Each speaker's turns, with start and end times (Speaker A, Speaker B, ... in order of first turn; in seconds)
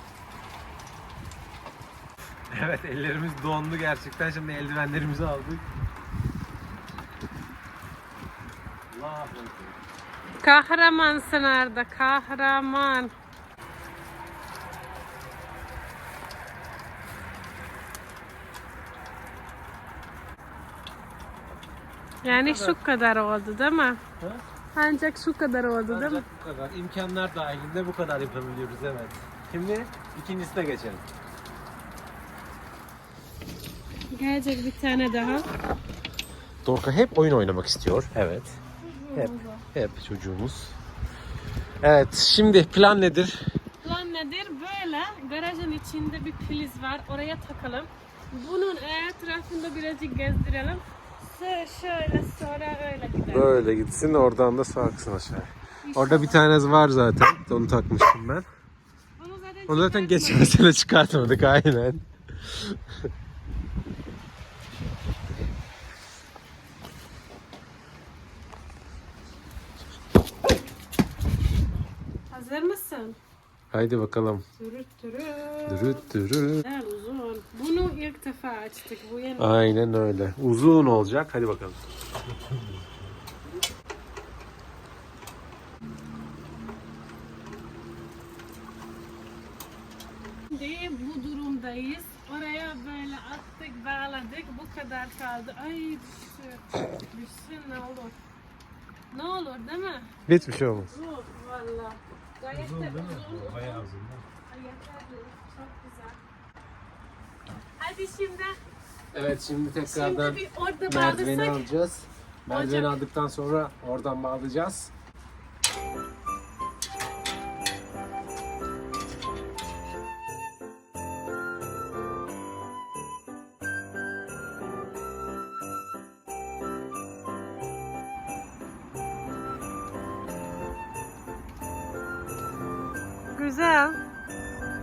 Speaker A: 2.5-5.7, 8.9-9.8, 22.3-22.8, 25.9-31.0, 36.6-38.6, 39.1-40.8, 41.8-43.4, 53.3-58.5, 59.7-62.8, 73.7-74.4, 75.7-76.7, 79.4-83.0, 100.2-100.9, 102.5-104.3, 109.1-114.9
Speaker B: 10.4-13.1, 22.2-24.0, 24.8-26.2, 34.1-35.5, 38.8-39.6, 43.8-53.6, 55.8-56.4, 59.2-60.7, 72.3-73.2, 74.6-76.1, 76.6-79.7, 90.5-98.2, 99.1-103.9, 104.5-106.2, 107.8-108.6, 109.9-111.7, 112.5-113.0, 133.3-134.0